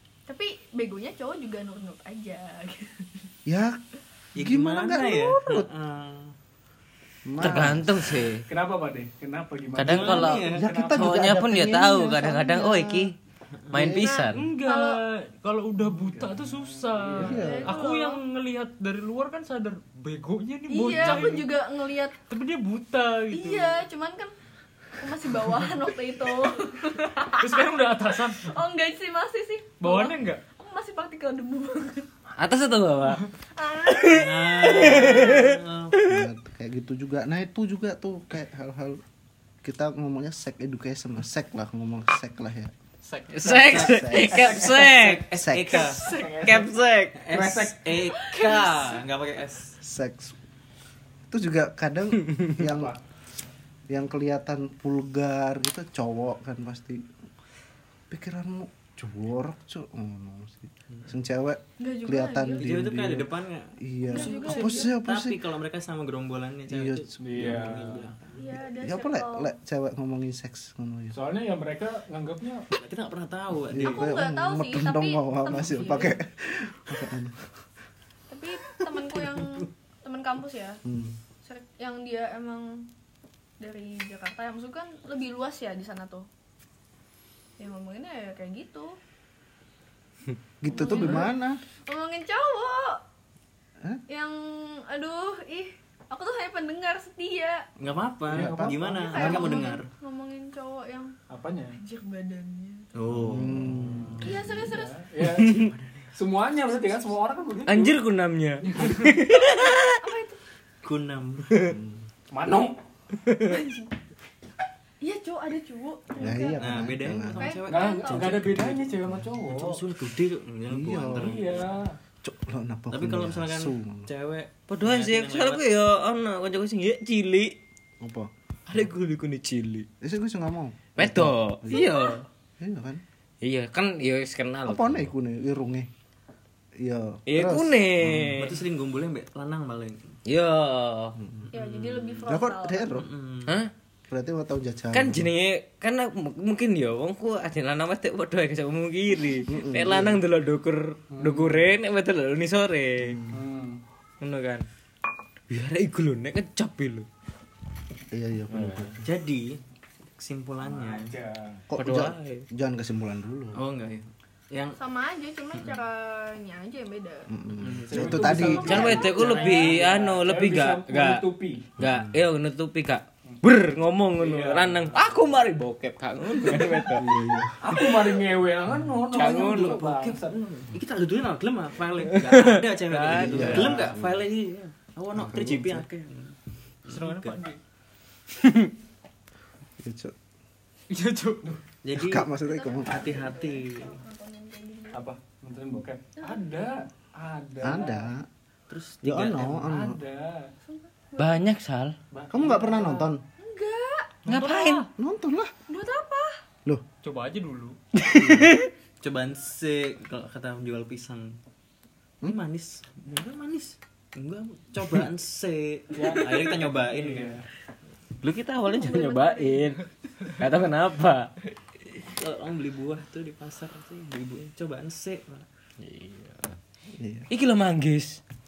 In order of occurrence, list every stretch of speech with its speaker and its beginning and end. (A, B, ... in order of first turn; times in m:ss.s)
0:00.3-0:03.3 A
0:03.4-0:03.8 B
0:04.3-0:06.3 C
0:04.4-0:05.7 B
0:07.2-0:08.2 B
0:07.4-0:08.5 D
0:08.5-0:11.3 E
0:09.7-0:13.1 D
0:09.8-0:10.6 C
0:10.5-0:13.1 B
0:13.5-0:13.9 C
0:13.7-0:14.5 D
0:13.7-0:14.0 B
0:14.0-0:15.0 A
0:14.3-0:21.5 F
0:15.8-0:17.4 E
0:17.2-0:17.7 B
0:17.2-0:18.2 A
0:20.7-0:22.2 A
0:22.3-0:23.8 F
0:23.3-0:24.3 A
0:25.0-0:27.7 A
0:27.3-0:28.6 F
0:28.3-0:32.1 A
0:29.8-0:30.4 F
0:32.4-0:33.2 D
0:33.5-0:34.3 A
0:33.9-0:36.2 D
0:34.0-0:36.0 C
0:36.0-0:39.0 B
0:39.6-0:42.7 B
0:43.0-0:43.7 F
0:43.3-0:45.3 D
0:43.5-0:46.2 C
0:43.8-0:44.5 B
0:44.2-0:44.9 E
0:45.3-0:45.9 B
0:46.0-0:48.1 E
0:46.2-0:47.2 D
0:47.1-0:49.8 C
0:48.3-0:48.7 A
0:49.8-0:50.4 B
0:51.3-0:52.9 B
0:52.6-0:53.0 E
0:53.9-0:57.1 B
0:58.1-1:05.4 B
1:01.8-1:02.7 A
1:02.6-1:08.3 C
1:04.0-1:04.9 A
1:06.7-1:07.5 B
1:07.2-1:08.4 E
1:08.4-1:09.5 A
1:08.6-1:11.2 B
1:11.1-1:12.7 E
1:12.7-1:14.1 C
1:13.7-1:17.5 B
1:13.8-1:16.2 A
1:18.3-1:20.8 A
1:20.8-1:21.2 B
1:21.4-1:22.9 A
1:23.6-1:26.3 A
1:27.6-1:29.0 A
1:30.6-1:31.6 B
1:30.7-1:31.3 A
1:31.9-1:33.0 A
1:34.1-1:37.6 A
1:37.8-1:39.9 C
1:38.3-1:39.3 E
1:38.3-1:39.7 B
1:39.0-1:41.1 A
1:41.3-1:41.8 E
1:41.7-1:42.9 A
1:42.9-1:44.3 C
1:43.1-1:44.5 B
1:43.7-1:48.0 E
1:44.2-1:44.9 A
1:45.4-1:45.7 D
1:45.5-1:46.1 C
1:47.6-1:50.0 D
1:48.6-1:49.2 E
1:50.0-1:50.4 A
1:50.8-1:51.7 C
1:51.7-1:52.0 B
1:52.3-1:52.8 E
1:53.1-1:53.6 D
1:53.4-1:53.9 A
1:55.0-1:56.8 A
1:56.2-1:57.5 B
1:56.6-2:01.8 C
1:57.4-1:58.4 A
1:57.7-1:59.8 E
2:00.7-2:01.4 B
2:01.1-2:01.9 E
2:02.2-2:04.1 B
2:02.9-2:05.6 C
2:04.7-2:07.6 D
2:08.0-2:08.3 B
2:08.7-2:09.9 D
2:10.0-2:11.8 B
2:11.0-2:12.2 D
2:11.7-2:12.2 A
2:12.6-2:13.0 B
2:13.4-2:15.1 D
2:14.6-2:15.9 B
2:16.8-2:18.5 B
2:17.3-2:18.6 D
2:18.4-2:20.2 C
2:20.2-2:21.2 D
2:21.2-2:21.5 B
2:21.5-2:22.9 A
2:22.2-2:23.1 B
2:22.9-2:23.6 C
2:23.4-2:23.7 D
2:24.1-2:25.3 B
2:24.9-2:33.3 D
2:29.5-2:30.2 B
2:31.1-2:31.7 E
2:33.1-2:33.4 B
2:33.3-2:33.8 E
2:34.2-2:34.6 D
2:35.5-2:37.1 D
2:38.1-2:39.0 B
2:38.5-2:39.0 D
2:39.0-2:39.6 C
2:40.2-2:41.1 C
2:40.6-2:41.6 E
2:41.7-2:43.6 B
2:41.8-2:42.4 D
2:43.5-2:44.8 C
2:44.8-2:47.3 A
2:47.3-2:49.1 B
2:47.6-2:49.9 C
2:47.9-2:51.7 E
2:48.4-2:51.2 D
2:48.8-2:49.5 A
2:51.8-2:57.1 D
2:51.8-2:52.1 B
2:54.1-2:55.3 E
2:56.3-3:00.6 E
2:57.0-2:57.6 B
2:59.1-2:59.9 D
2:59.4-3:07.4 C
3:02.2-3:03.9 D
3:03.1-3:04.2 B
3:03.3-3:03.9 E
3:05.1-3:05.9 B
3:06.9-3:07.6 F
3:08.4-3:08.7 D
3:09.8-3:10.1 B
3:10.9-3:11.6 F
3:11.8-3:12.3 C
3:11.9-3:13.1 B
3:12.4-3:15.0 A
3:12.8-3:14.0 C
3:14.9-3:18.1 E
3:16.2-3:16.5 A
3:17.6-3:18.3 B
3:18.7-3:19.7 C
3:19.0-3:20.0 B
3:19.4-3:20.5 E
3:20.6-3:21.4 A
3:21.2-3:21.9 D
3:22.1-3:23.1 E
3:22.3-3:23.2 B
3:23.4-3:24.2 A
3:24.2-3:24.9 F
3:24.3-3:24.8 D
3:24.9-3:25.5 B
3:25.7-3:26.4 A
3:27.0-3:27.8 F
3:28.0-3:28.7 D
3:29.0-3:31.4 C
3:32.2-3:37.4 C
3:35.9-3:37.4 E
3:38.2-3:39.8 D
3:38.7-3:39.7 A
3:40.4-3:41.3 D
3:42.0-3:45.4 C
3:45.8-3:46.5 D
3:46.9-3:47.3 B
3:47.3-3:48.2 D